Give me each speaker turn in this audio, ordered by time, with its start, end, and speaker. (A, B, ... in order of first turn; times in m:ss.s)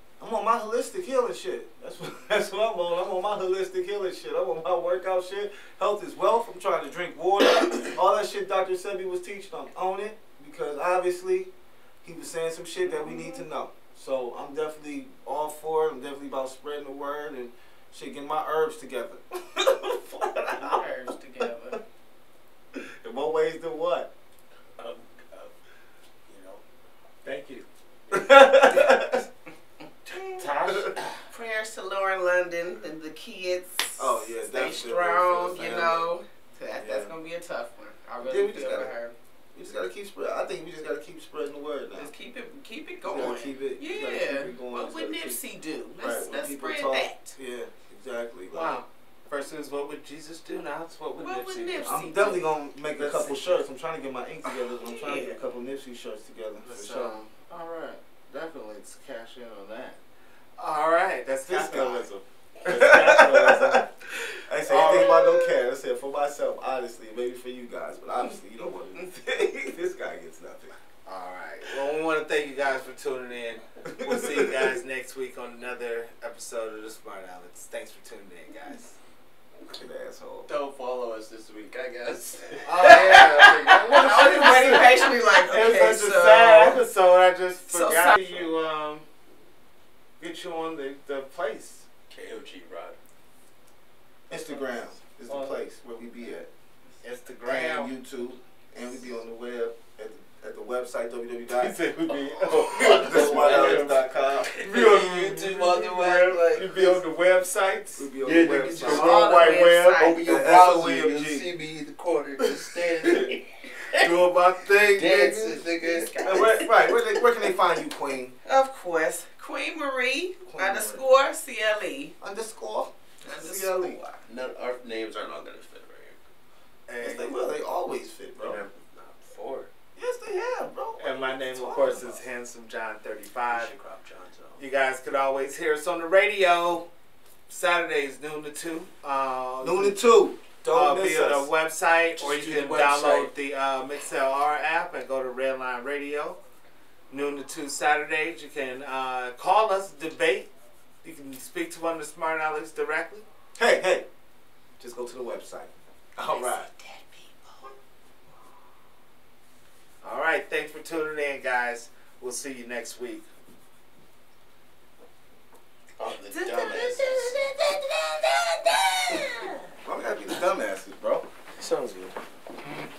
0:00.2-0:11.5 A
0:12.0-0:20.8 A
0:12.8-0:13.4 B
0:20.5-0:21.8 B
0:22.8-0:24.1 A
0:24.8-0:25.5 C
0:26.3-0:26.6 C
0:27.2-0:27.6 D
0:28.1-0:29.2 A
0:30.1-0:31.2 D
0:30.6-0:30.9 A
0:31.3-0:39.1 B
0:34.0-0:36.1 A
0:36.7-0:37.1 A
0:38.2-0:38.9 A
0:39.5-0:42.1 A
0:41.9-0:47.3 B
0:43.0-0:45.4 A
0:46.0-0:48.8 A
0:48.5-0:52.0 D
0:51.2-0:53.3 B
0:51.8-0:57.2 A
0:53.1-0:53.6 D
0:54.4-0:55.4 B
0:56.6-1:00.0 D
1:00.6-1:03.9 D
1:01.5-1:02.1 A
1:02.6-1:03.8 A
1:04.4-1:10.7 A
1:04.7-1:05.5 D
1:11.0-1:18.9 D
1:14.0-1:14.7 A
1:19.7-1:20.5 A
1:20.5-1:22.8 C
1:21.8-1:26.8 B
1:22.6-1:29.0 D
1:27.7-1:28.5 B
1:30.2-1:31.8 D
1:32.1-1:33.0 C
1:34.3-1:36.5 A
1:35.3-1:35.6 D
1:37.0-1:37.9 D
1:37.4-1:41.8 A
1:41.6-1:44.0 D
1:42.6-1:44.5 A
1:42.8-1:43.9 C
1:44.4-1:46.7 C
1:44.6-1:50.2 D
1:48.0-1:49.3 A
1:48.5-1:53.2 C
1:48.9-1:50.3 B
1:50.2-1:51.5 A
1:52.4-1:56.1 D
1:54.9-1:56.0 C
1:55.7-1:56.8 B
1:56.2-1:58.3 A
1:58.4-2:02.1 B
2:00.5-2:01.1 A
2:02.2-2:04.0 A
2:03.2-2:04.2 B
2:04.2-2:06.2 C
2:06.9-2:07.4 D
2:07.0-2:08.6 A
2:08.4-2:09.7 C
2:10.0-2:12.2 A
2:11.0-2:13.7 D
2:13.5-2:14.6 C
2:14.6-2:16.9 D
2:17.5-2:20.0 D
2:19.6-2:21.5 A
2:20.7-2:26.4 D
2:22.2-2:23.3 B
2:22.4-2:23.2 C
2:27.1-2:30.5 D
2:31.0-2:33.2 D
2:33.6-2:34.0 A
2:34.8-2:36.7 A
2:36.2-2:37.5 B
2:40.0-2:43.3 D
2:46.0-2:47.4 C
2:46.3-2:49.6 B
2:49.8-2:51.2 A
2:51.6-2:52.1 C